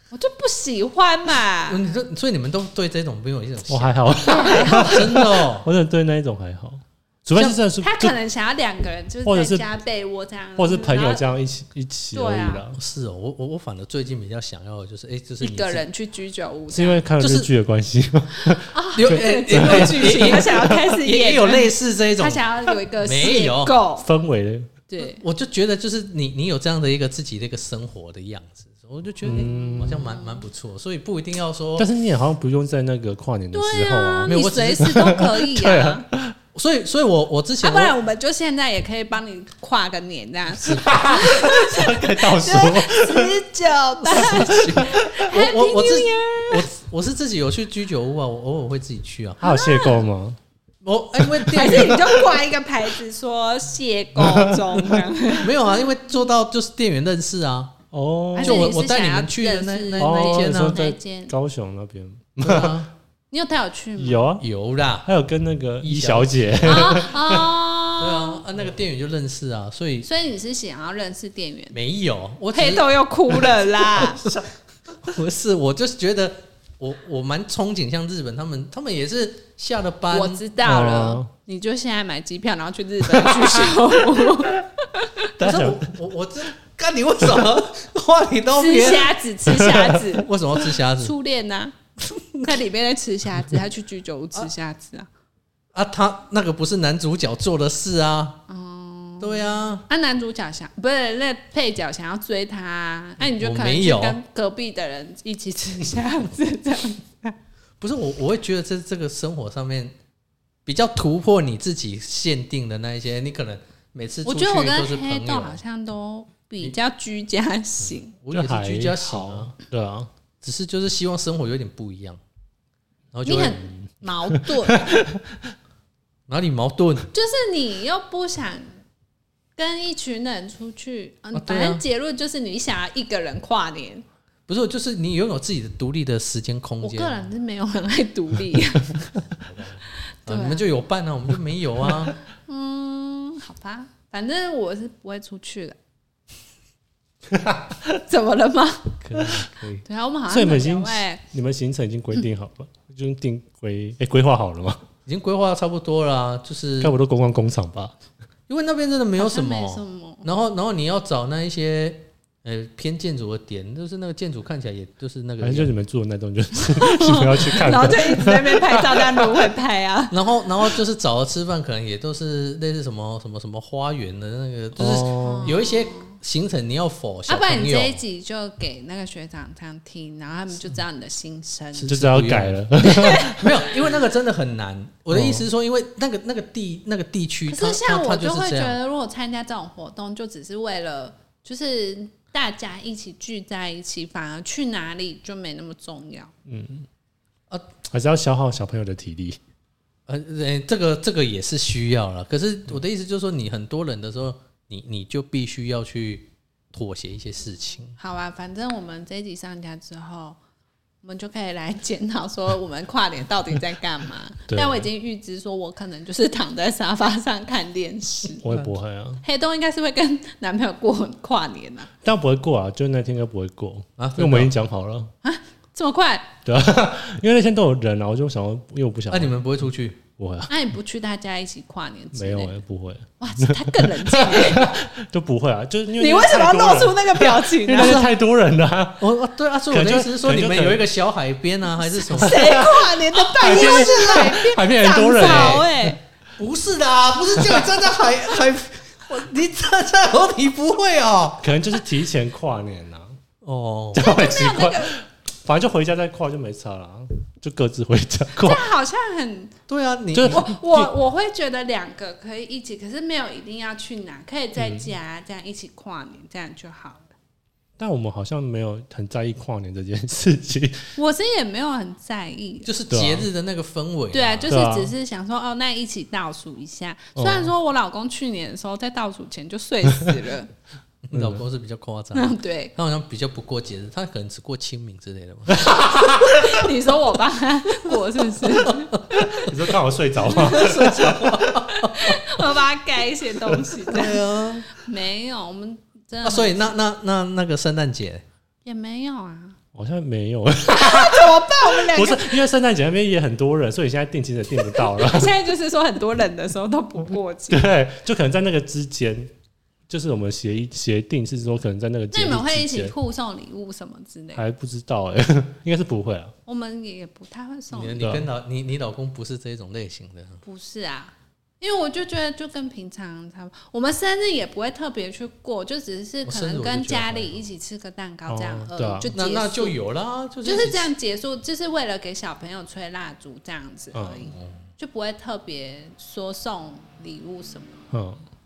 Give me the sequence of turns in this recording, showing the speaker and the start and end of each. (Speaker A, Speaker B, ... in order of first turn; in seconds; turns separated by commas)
Speaker A: 0.1-1.8, Speaker B: 1.7-5.7, Speaker C: 3.7-8.2, Speaker A: 4.1-5.4, Speaker A: 7.8-11.2, Speaker C: 9.3-9.7, Speaker C: 10.6-12.8, Speaker A: 12.1-12.6, Speaker B: 12.7-15.8, Speaker A: 15.4-17.0, Speaker C: 16.7-20.8, Speaker B: 17.2-17.5, Speaker A: 18.4-24.1, Speaker B: 18.9-22.4, Speaker B: 23.0-23.8, Speaker C: 24.0-24.7, Speaker A: 24.9-25.2, Speaker B: 25.0-31.9, Speaker C: 29.2-30.2, Speaker A: 29.3-30.4, Speaker C: 31.8-36.4, Speaker A: 33.5-36.1, Speaker B: 34.3-35.2, Speaker B: 36.5-38.0, Speaker A: 37.6-46.7, Speaker B: 40.6-40.9, Speaker C: 40.7-43.4, Speaker B: 44.1-49.4, Speaker C: 44.2-44.9, Speaker A: 49.4-50.1, Speaker C: 49.4-50.4, Speaker B: 50.8-52.4, Speaker A: 51.5-55.7, Speaker C: 54.2-54.6, Speaker B: 55.4-57.8, Speaker C: 57.9-58.7, Speaker A: 58.4-61.4, Speaker B: 58.4-60.8, Speaker C: 60.0-62.9, Speaker B: 62.4-62.9, Speaker A: 63.3-64.2, Speaker C: 64.0-64.5, Speaker B: 64.4-65.1, Speaker C: 65.0-67.5, Speaker B: 65.8-67.1, Speaker A: 66.7-68.4, Speaker B: 68.0-70.1, Speaker A: 70.0-71.8, Speaker B: 71.7-74.4, Speaker A: 72.5-74.3, Speaker B: 75.0-80.4, Speaker A: 80.1-85.3, Speaker C: 80.7-81.3, Speaker B: 85.4-91.1, Speaker C: 85.4-85.9, Speaker A: 88.5-90.3, Speaker A: 91.0-91.8, Speaker B: 92.1-92.5, Speaker A: 92.4-95.1, Speaker B: 95.7-98.4, Speaker A: 98.5-107.3, Speaker B: 99.2-99.9, Speaker B: 103.2-104.2, Speaker B: 107.8-110.0, Speaker B: 110.7-115.6, Speaker A: 114.2-118.2, Speaker B: 118.1-119.5, Speaker C: 118.3-120.1, Speaker B: 120.4-122.2, Speaker B: 123.1-123.6, Speaker A: 123.2-124.9, Speaker C: 124.3-125.5, Speaker B: 126.3-127.1, Speaker A: 127.1-128.8, Speaker A: 129.6-134.1, Speaker B: 131.3-131.8, Speaker B: 134.5-137.2, Speaker A: 136.8-139.2, Speaker B: 139.2-142.2, Speaker A: 140.1-140.6, Speaker A: 142.5-145.8, Speaker A: 148.0-149.0, Speaker B: 149.0-149.8, Speaker A: 149.8-151.2, Speaker C: 150.3-154.8, Speaker B: 155.1-157.0, Speaker C: 156.8-157.9, Speaker B: 158.5-165.7, Speaker A: 159.2-160.3, Speaker C: 165.4-169.3, Speaker A: 166.7-170.7, Speaker B: 170.1-178.0, Speaker C: 174.8-175.6, Speaker A: 175.2-176.1, Speaker A: 177.3-181.9, Speaker B: 181.7-188.8, Speaker C: 181.9-183.5, Speaker A: 182.8-184.0, Speaker C: 185.1-185.5, Speaker A: 187.5-196.3, Speaker C: 196.5-196.9, Speaker C: 197.9-199.4, Speaker B: 200.1-208.0, Speaker A: 208.0-210.4, Speaker A: 211.0-218.4, Speaker C: 214.5-214.9, Speaker C: 218.4-219.2, Speaker B: 218.4-218.8, Speaker A: 219.2-221.9, Speaker C: 222.0-225.1, Speaker B: 224.0-224.5, Speaker A: 225.2-226.3, Speaker C: 226.5-229.4, Speaker B: 229.1-230.0, Speaker C: 230.2-230.5, Speaker A: 230.5-232.6, Speaker C: 232.1-239.1, Speaker A: 233.2-234.8, Speaker A: 236.0-238.1, Speaker B: 237.8-238.0, Speaker B: 239.0-242.7, Speaker C: 239.7-240.8, Speaker A: 241.9-246.0, Speaker C: 242.1-245.8, Speaker B: 243.4-244.3, Speaker B: 245.1-245.7, Speaker B: 246.4-251.5, Speaker C: 247.4-247.7, Speaker C: 251.4-253.2, Speaker B: 253.4-254.1, Speaker C: 253.9-258.7, Speaker A: 254.0-255.0, Speaker A: 258.4-259.6, Speaker B: 259.7-260.5, Speaker C: 260.1-260.9, Speaker A: 260.3-267.1, Speaker C: 264.6-264.9, Speaker C: 267.8-270.9, Speaker A: 270.9-272.7, Speaker B: 272.6-274.6, Speaker C: 272.9-273.3, Speaker A: 274.1-280.5, Speaker C: 274.5-274.9, Speaker C: 277.2-277.5, Speaker B: 281.0-285.7, Speaker C: 281.1-281.4, Speaker A: 282.1-282.7, Speaker C: 285.6-286.3, Speaker A: 286.0-289.5, Speaker C: 289.4-291.1, Speaker A: 290.2-296.7, Speaker B: 290.3-292.2, Speaker B: 293.9-294.7, Speaker B: 296.2-298.2, Speaker A: 298.6-299.6, Speaker C: 299.8-305.3, Speaker A: 300.7-302.4, Speaker A: 304.8-307.7, Speaker C: 307.5-309.3, Speaker C: 309.9-312.9, Speaker A: 312.1-314.4, Speaker C: 314.4-316.3, Speaker A: 316.5-318.0, Speaker B: 317.7-320.4, Speaker C: 318.0-318.3, Speaker A: 320.4-329.8, Speaker B: 326.2-327.4, Speaker C: 328.3-329.1, Speaker B: 329.1-330.9, Speaker A: 330.4-337.8, Speaker C: 333.9-334.2, Speaker B: 334.3-334.6, Speaker C: 337.9-338.2